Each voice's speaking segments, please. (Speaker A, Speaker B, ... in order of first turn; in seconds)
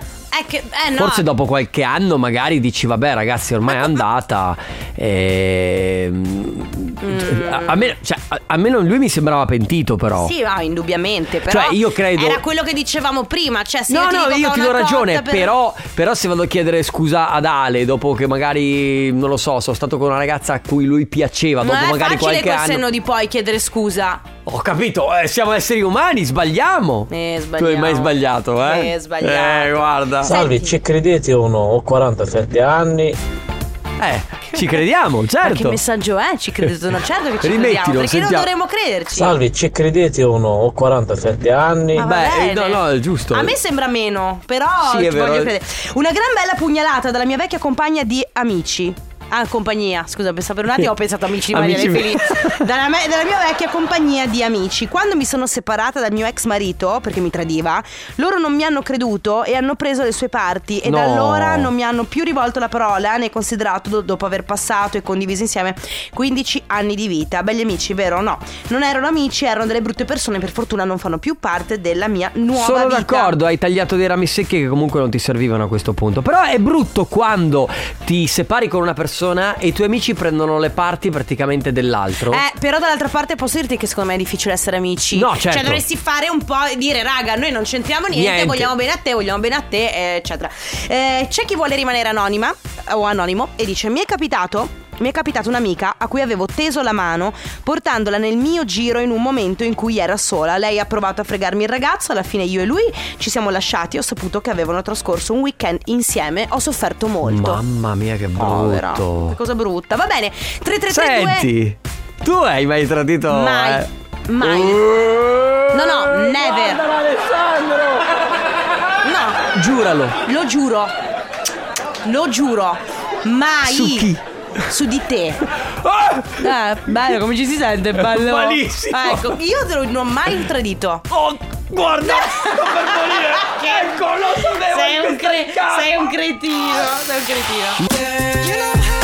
Speaker A: 0.3-1.2, 3.7-4.0, 7.0-7.9, 10.2-15.5, 21.6-24.2, 27.1-30.8, 34.5-34.8, 35.4-39.4, 42.0-73.3, 82.3-107.6, 108.4-111.5, 113.3-114.9, 115.7-116.8, 119.0-119.5, 120.2-120.9, 122.0-124.1, 124.7-125.4, 126.4-131.1, 132.1-133.9, 134.6-137.8
Speaker B: 1.0-10.3, 11.5-12.4, 13.9-22.8, 24.4-30.3, 34.0-35.8, 37.4-38.5, 42.0-43.5, 44.8-45.5, 51.5-52.6, 60.8-61.7, 72.5-82.4, 85.1-85.8, 88.1-88.7, 107.2-109.3, 110.9-113.9, 114.4-118.2, 119.5-120.2, 123.6-124.2, 125.8-127.1, 128.0-129.4, 131.1-136.1, 137.8-138.5
Speaker C: 30.3-33.2, 39.1-42.1